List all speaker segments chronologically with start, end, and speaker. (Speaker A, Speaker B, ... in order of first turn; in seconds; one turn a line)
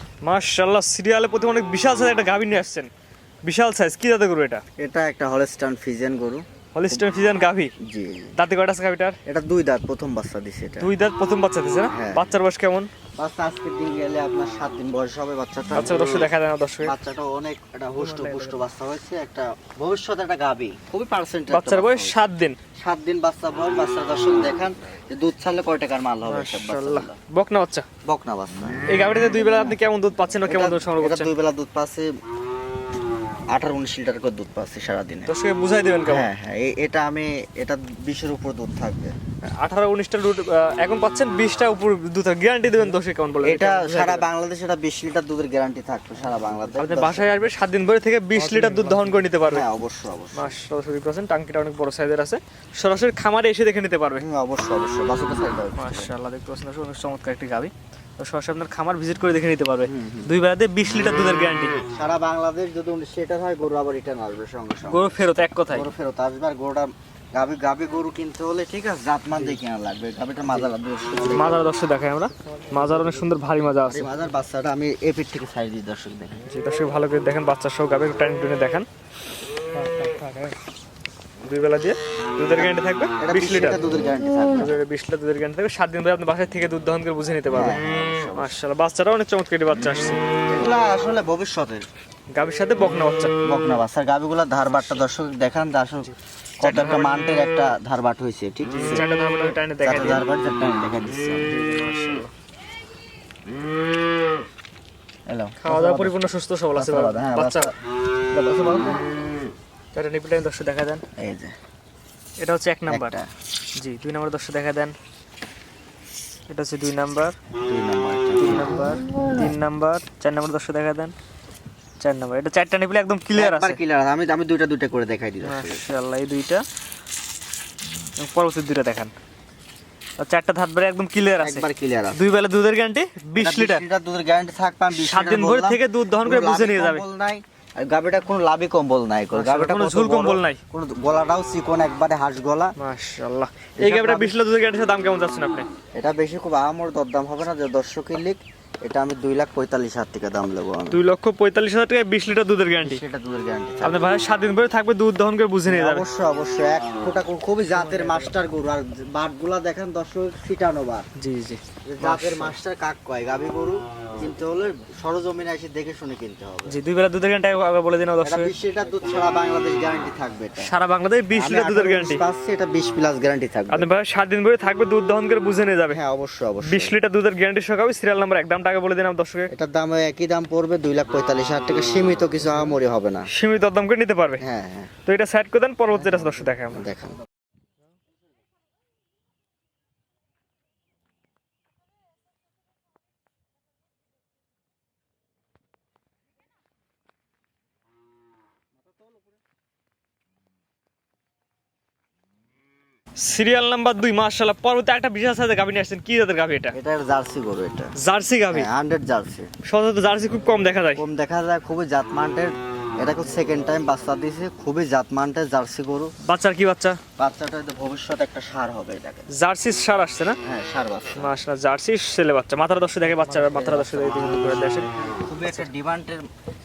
Speaker A: 0.2-2.9
Speaker A: 3.4-4.6
Speaker B: 4.8-7.0
Speaker A: 6.7-7.7
Speaker B: 7.8-8.3
Speaker A: 8.3-9.2
Speaker B: 9.2-10.9
Speaker A: 10.8-12.9
Speaker B: 11.9-12.3
Speaker B: 13.2-16.3
Speaker A: 15.7-16.9
Speaker B: 16.8-22.1
Speaker A: 18.0-18.6
Speaker A: 21.5-22.6
Speaker B: 22.8-27.2
Speaker A: 26.2-27.9
Speaker B: 28.0-29.4
Speaker A: 28.9-31.3
Speaker B: 30.4-32.1
Speaker B: 33.5-35.3
Speaker A: 35.3-36.3
Speaker B: 36.1-39.1
Speaker A: 39.4-44.3
Speaker B: 43.4-47.3
Speaker A: 46.7-49.6
Speaker B: 49.4-50.5
Speaker A: 50.3-54.2
Speaker B: 54.2-56.1
Speaker A: 55.8-61.8
Speaker B: 59.9-60.3
Speaker B: 61.9-65.1
Speaker A: 64.8-65.9
Speaker B: 65.7-71.7
Speaker A: 71.3-74.1
Speaker B: 73.8-76.4
Speaker A: 76.5-78.9
Speaker A: 79.7-80.5
Speaker A: 81.4-83.8
Speaker B: 83.2-84.7
Speaker A: 84.5-90.2
Speaker B: 87.5-88.5
Speaker B: 90.5-91.8
Speaker A: 92.3-93.3
Speaker B: 93.4-99.1
Speaker A: 96.0-97.2
Speaker A: 98.7-100.2
Speaker B: 99.8-101.5
Speaker A: 101.5-102.3
Speaker B: 105.3-106.2
Speaker A: 105.6-107.7
Speaker B: 106.7-107.7
Speaker B: 108.3-109.0
Speaker A: 109.9-111.0
Speaker B: 111.2-111.5
Speaker A: 112.4-113.1
Speaker B: 112.9-113.3
Speaker A: 113.8-114.9
Speaker A: 116.5-117.3
Speaker B: 117.6-119.5
Speaker A: 118.4-121.1
Speaker A: 122.0-123.8
Speaker B: 123.3-125.8
Speaker A: 125.4-126.6
Speaker A: 128.2-129.1
Speaker A: 130.2-133.8
Speaker B: 131.4-132.2
Speaker B: 133.4-142.8
Speaker A: 134.9-137.0
Speaker A: 139.3-140.6
Speaker A: 142.8-145.7
Speaker B: 143.8-144.3
Speaker B: 145.9-151.0
Speaker A: 150.9-153.0
Speaker B: 152.8-154.1
Speaker A: 153.8-156.1
Speaker B: 155.7-161.1
Speaker A: 157.7-158.3
Speaker A: 161.2-162.6
Speaker B: 161.8-166.8
Speaker A: 166.7-168.5
Speaker B: 168.2-170.7
Speaker A: 170.6-172.2
Speaker B: 171.3-173.9
Speaker A: 173.7-176.0
Speaker B: 175.9-177.0
Speaker A: 176.6-179.5
Speaker B: 179.5-183.3
Speaker A: 183.3-184.4
Speaker B: 184.4-184.9
Speaker A: 185.1-186.9
Speaker B: 185.9-187.2
Speaker A: 203.2-206.7
Speaker B: 206.7-207.9
Speaker A: 208.0-208.7
Speaker B: 208.5-209.5
Speaker A: 209.6-211.0
Speaker B: 210.9-216.1
Speaker A: 216.2-217.0
Speaker B: 217.2-219.3
Speaker A: 219.3-220.4
Speaker B: 220.4-221.3
Speaker A: 221.2-224.9
Speaker B: 223.2-226.2